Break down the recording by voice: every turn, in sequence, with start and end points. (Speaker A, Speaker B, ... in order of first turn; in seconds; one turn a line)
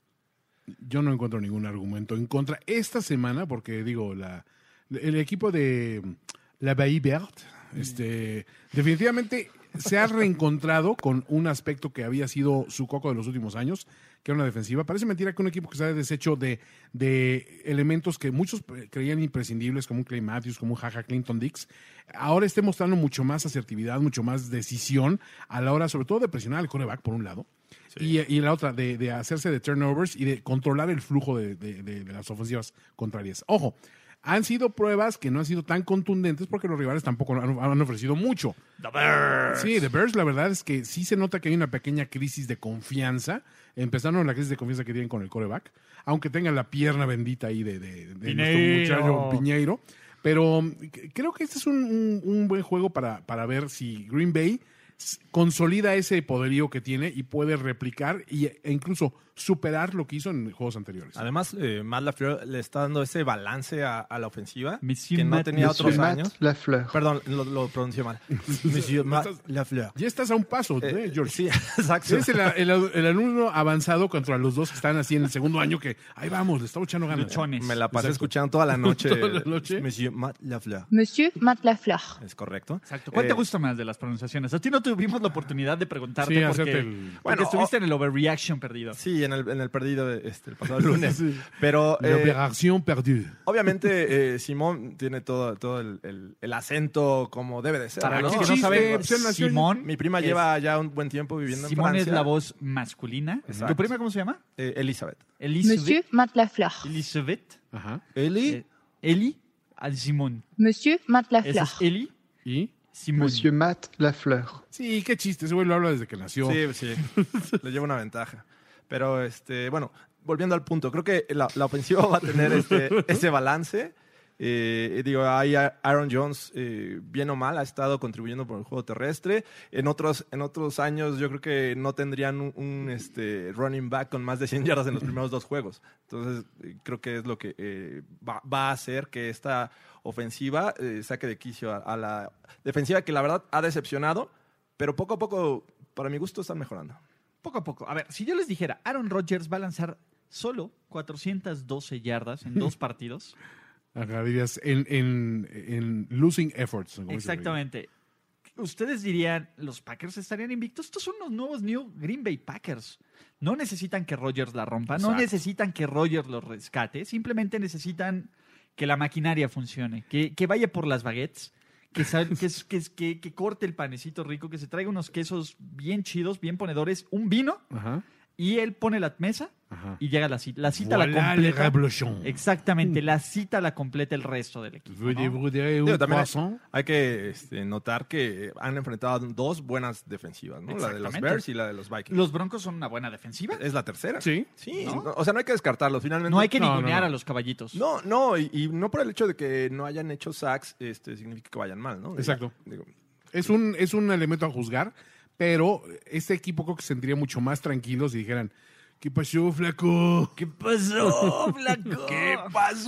Speaker A: 0.7-38.6
Speaker B: 38.8-39.9
Speaker A: 39.5-61.3
Speaker B: 48.2-49.5
Speaker C: 61.2-66.3
Speaker B: 64.8-66.0
Speaker D: 65.6-67.0
Speaker C: 66.9-70.0
Speaker A: 68.5-69.3
Speaker A: 70.0-71.4
Speaker C: 70.8-72.5
Speaker A: 72.1-79.9
Speaker B: 77.1-77.8
Speaker C: 77.6-80.9
Speaker E: 80.9-82.2
Speaker C: 82.2-83.5
Speaker B: 82.9-89.0
Speaker A: 86.2-87.2
Speaker C: 87.2-87.7
Speaker C: 88.9-92.4
Speaker A: 90.8-91.5
Speaker A: 92.0-93.3
Speaker C: 93.5-99.1
Speaker B: 98.0-100.4
Speaker A: 98.0-99.7
Speaker C: 99.8-102.3
Speaker B: 101.5-104.4
Speaker A: 103.5-103.7
Speaker C: 103.5-103.9
Speaker C: 104.6-105.2
Speaker B: 105.4-106.0
Speaker E: 105.6-106.9
Speaker B: 106.8-107.6
Speaker A: 107.7-108.0
Speaker C: 108.2-108.6
Speaker B: 108.5-110.4
Speaker E: 110.6-111.9
Speaker B: 111.4-112.1
Speaker A: 112.5-112.7
Speaker B: 112.9-113.5
Speaker D: 113.2-114.6
Speaker A: 114.7-116.7
Speaker C: 116.4-147.0
Speaker B: 147.4-153.3
Speaker A: 153.9-157.6
Speaker B: 157.1-157.9
Speaker B: 158.6-177.6
Speaker A: 177.7-178.0
Speaker B: 178.4-185.4
Speaker A: 179.7-180.0
Speaker A: 180.7-183.0
Speaker A: 184.9-186.6
Speaker C: 185.8-192.2
Speaker B: 190.7-191.4
Speaker B: 192.1-193.6
Speaker C: 193.6-196.6
Speaker A: 194.2-194.5
Speaker B: 194.8-195.1
Speaker B: 196.3-197.8
Speaker A: 196.5-197.1
Speaker C: 197.7-202.9
Speaker A: 202.2-202.5
Speaker A: 203.3-210.4
Speaker B: 210.4-212.5
Speaker A: 211.0-212.8